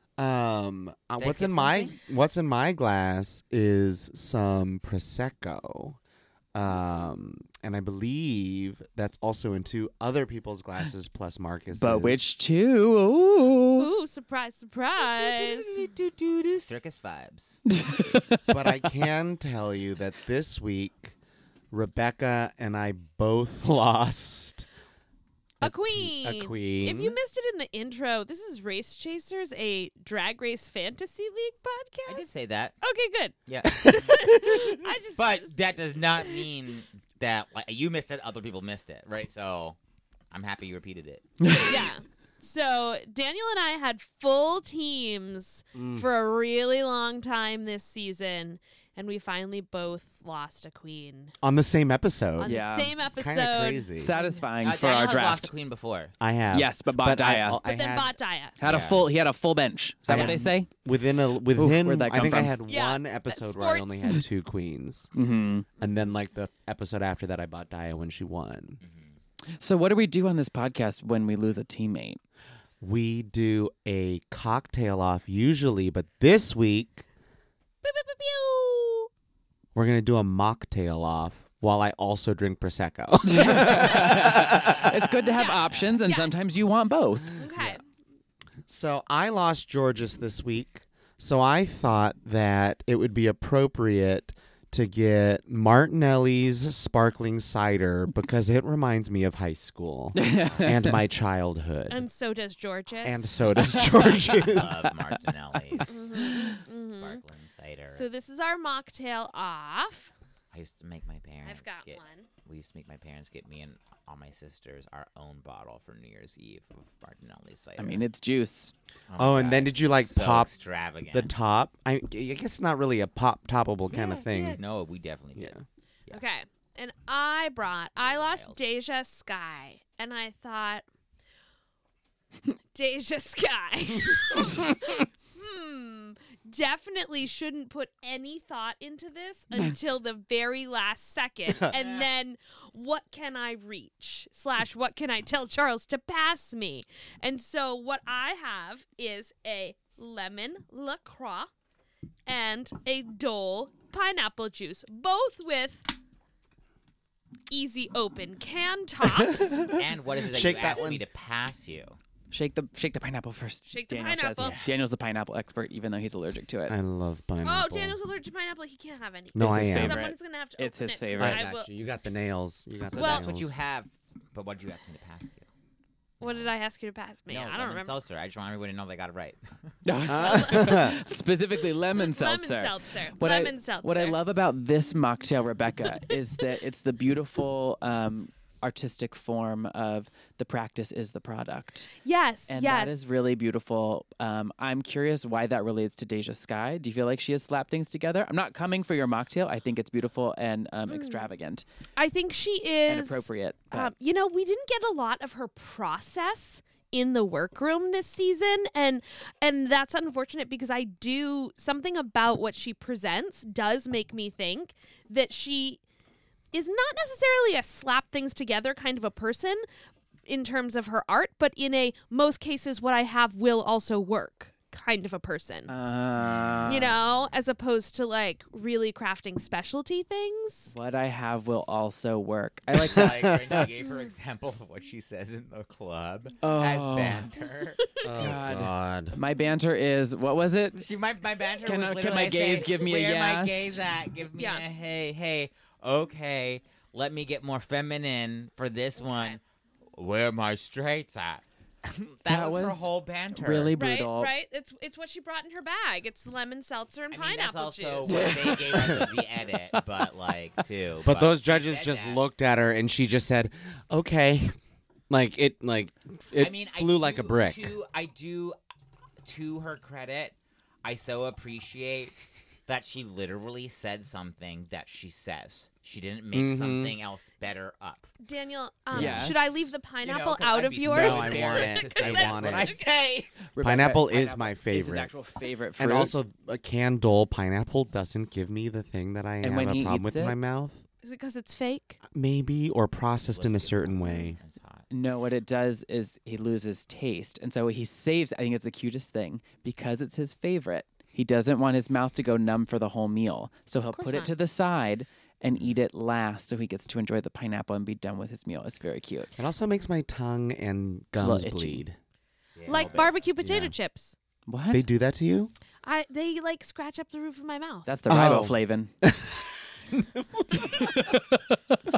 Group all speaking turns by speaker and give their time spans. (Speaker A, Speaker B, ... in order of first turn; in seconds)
Speaker A: 0.2-6.0, 6.5-12.2, 18.5-21.1, 21.7-24.7, 25.6-27.2, 45.7-46.1, 51.4-54.1, 56.2-58.1, 60.1-65.1, 65.8-68.8, 72.8-77.0, 79.7-85.0, 88.7-102.0, 103.0-104.9, 119.2-120.5, 121.1-124.6, 125.3-125.6, 160.3-161.0, 166.7-167.9, 169.3-170.1, 171.2-173.5, 180.0-181.0, 232.9-233.8, 238.0-239.1, 261.0-264.6, 265.1-267.7, 276.3-277.0, 278.9-279.4, 280.8-282.8, 283.6-285.1, 285.8-290.8, 292.1-294.4, 309.4-311.9, 312.8-313.7, 314.7-315.5, 318.1-321.0
Speaker B: 1.2-1.9, 15.0-17.6, 32.0-32.8, 33.5-34.3, 35.1-39.8, 40.3-41.3, 54.6-56.1, 58.6-59.1, 68.8-69.1, 103.9-105.9, 107.0-108.1, 110.5-118.0, 119.1-121.3, 124.6-126.2, 128.0-128.6, 141.7-142.1, 159.7-162.0, 172.8-175.5, 176.2-176.5, 177.3-179.7, 226.2-226.9, 232.7-237.8, 240.8-249.4, 249.9-253.8, 257.1-262.2, 266.4-268.6, 269.2-272.1, 272.7-278.1, 280.0-283.3, 293.3-294.9, 312.6-313.3
Speaker C: 11.8-13.9, 17.7-18.4, 41.4-41.9, 52.4-52.9, 54.0-55.5, 56.5-57.6, 58.6-60.7, 61.5-62.5, 65.1-65.7, 69.6-72.2, 83.2-87.5, 100.2-100.7, 105.7-106.5, 117.8-118.7, 162.3-166.8, 169.4-171.5, 179.8-191.9, 192.5-201.6, 202.9-203.9, 225.7-226.9, 230.7-233.3, 236.4-237.2, 238.1-240.8, 241.6-243.8, 252.2-254.3, 258.1-258.9, 278.9-279.7, 283.5-286.1, 289.4-290.4, 294.9-309.3, 311.2-311.8, 314.5-314.8, 317.9-318.9, 320.8-321.7
Speaker D: 13.8-15.8, 25.6-32.3, 32.8-35.6, 41.6-51.3, 52.4-54.5, 57.6-58.5, 62.7-64.2, 77.8-79.1, 83.6-84.1, 85.3-86.4, 87.3-87.8, 101.9-103.3, 105.8-107.2, 107.9-110.1, 111.4-112.3, 123.9-124.6, 126.1-130.8, 132.7-151.5, 152.3-155.9, 157.5-159.7, 163.7-164.6, 167.4-171.7, 172.9-173.3, 176.2-178.0, 180.1-181.0, 181.9-184.2, 192.0-192.9, 200.9-201.2, 202.0-215.8, 216.5-219.7, 220.3-225.7, 226.7-230.7, 244.4-244.6, 249.0-249.3, 253.8-258.3, 278.2-282.8, 291.0-292.0, 303.9-304.3, 312.7-314.1, 315.8-317.9